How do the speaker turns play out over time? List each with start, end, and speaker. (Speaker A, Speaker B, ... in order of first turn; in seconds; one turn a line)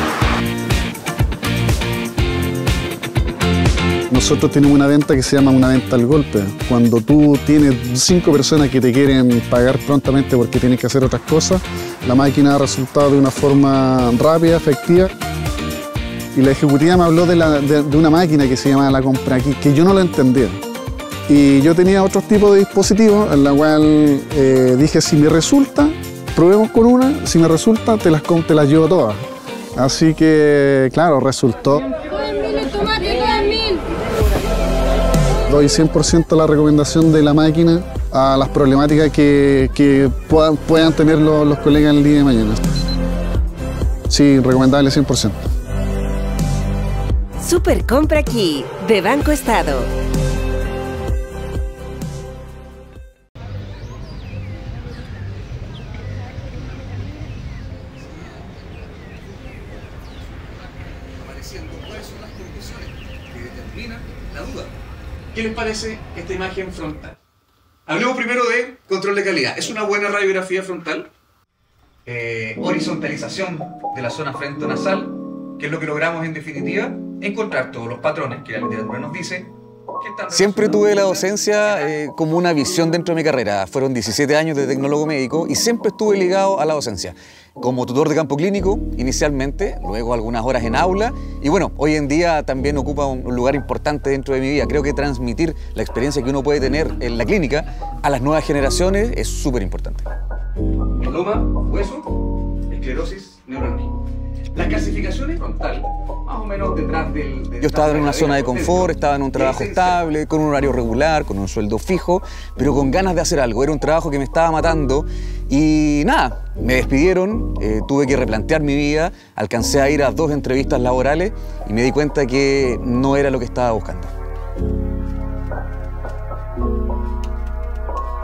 Speaker A: 4.1-15.1
Speaker A: 16.4-20.6
Speaker A: 21.3-29.2
Speaker A: 29.8-31.9
Speaker A: 35.5-42.6
Speaker A: 44.1-45.4
Speaker B: 47.4-49.9
Speaker C: 61.2-64.7
Speaker C: 65.3-67.1
Speaker D: 65.4-67.1
Speaker D: 67.9-71.0
Speaker C: 67.9-71.0
Speaker D: 72.1-75.0
Speaker C: 72.1-75.1
Speaker D: 75.6-79.5
Speaker C: 75.6-77.1
Speaker D: 80.1-81.3
Speaker C: 80.3-100.1
Speaker D: 101.0-102.1
Speaker D: 102.7-103.9
Speaker D: 104.6-110.0
Speaker C: 107.6-124.1